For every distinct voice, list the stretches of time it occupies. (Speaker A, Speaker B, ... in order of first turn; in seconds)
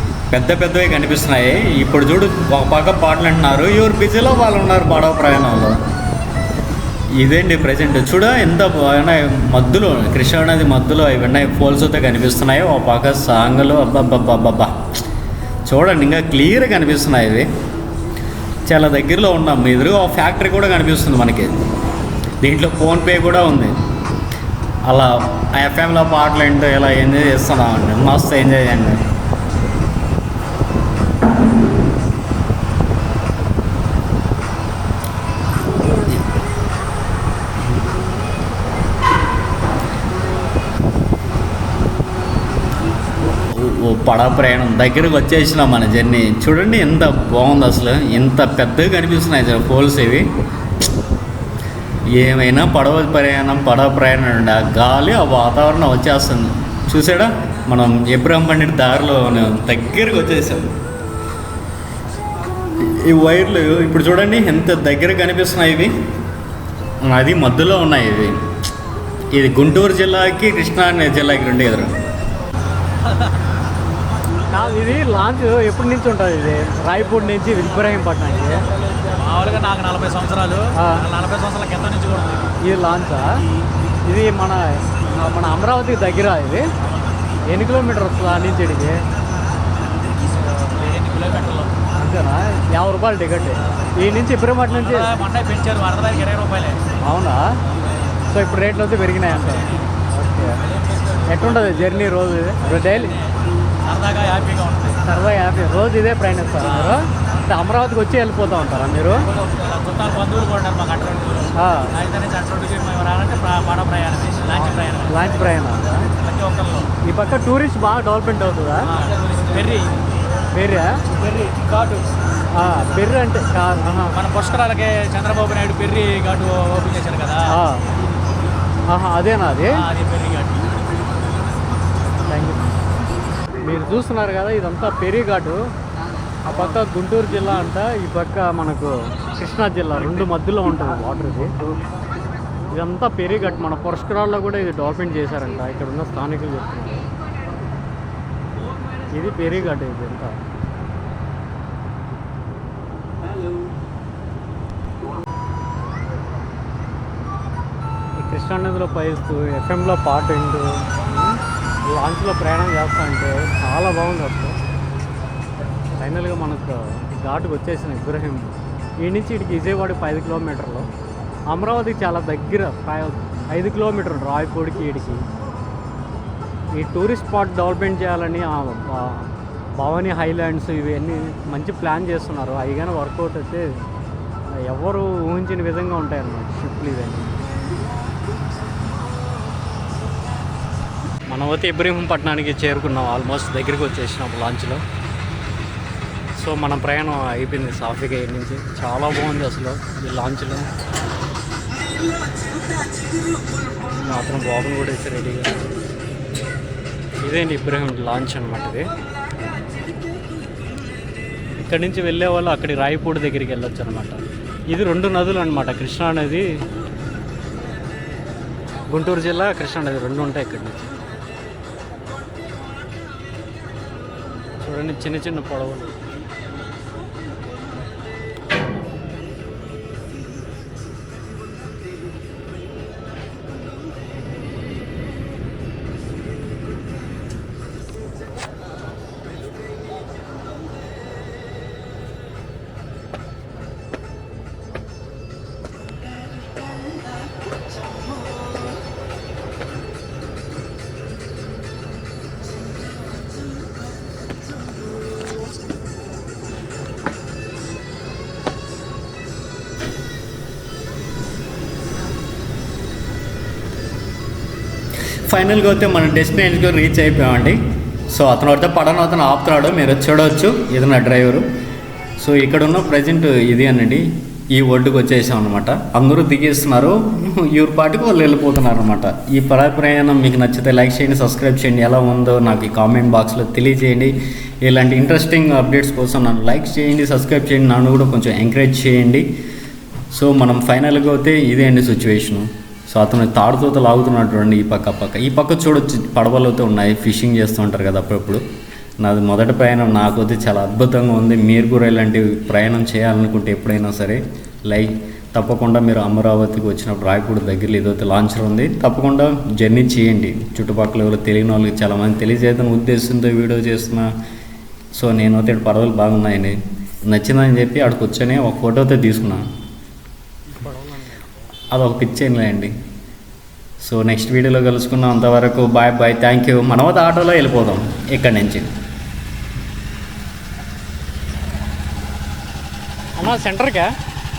Speaker A: 0.3-5.8, 7.2-15.0, 15.7-17.5, 18.6-21.6, 22.4-23.7, 24.9-29.0, 43.5-50.3, 52.1-60.7, 62.8-65.9, 67.0-68.5, 69.3-72.0, 265.3-271.4, 272.2-289.3, 290.1-298.4, 299.0-314.1, 314.9-319.4, 321.7-322.7, 323.8-328.7
Speaker B: 74.5-78.6, 80.8-81.0, 82.6-83.4, 84.0-86.6, 87.5-89.0, 91.9-95.1, 97.0-97.4, 98.3-100.6, 101.3-103.2, 105.0-109.2, 111.6-111.9, 114.5-116.1, 117.0-118.9, 120.5-121.3, 122.5-124.2, 127.5-127.8, 128.9-129.8, 132.3-132.7, 133.6-135.6, 136.4-141.5, 142.7-147.1, 149.1-150.3, 158.2-164.6, 166.0-170.9, 171.5-175.2, 176.8-183.6, 184.6-187.5, 191.3-194.8, 196.4-200.7, 203.9-205.6, 207.2-208.9, 211.6-216.4, 218.9-220.9, 224.6-225.9, 320.5-321.3, 333.2-333.9
Speaker C: 79.2-82.4, 90.6-91.7, 94.8-96.8, 102.8-103.3, 103.8-105.0, 106.7-107.0, 109.4-115.2, 116.1-116.9, 118.9-120.0, 121.3-122.0, 124.1-127.5, 129.8-130.7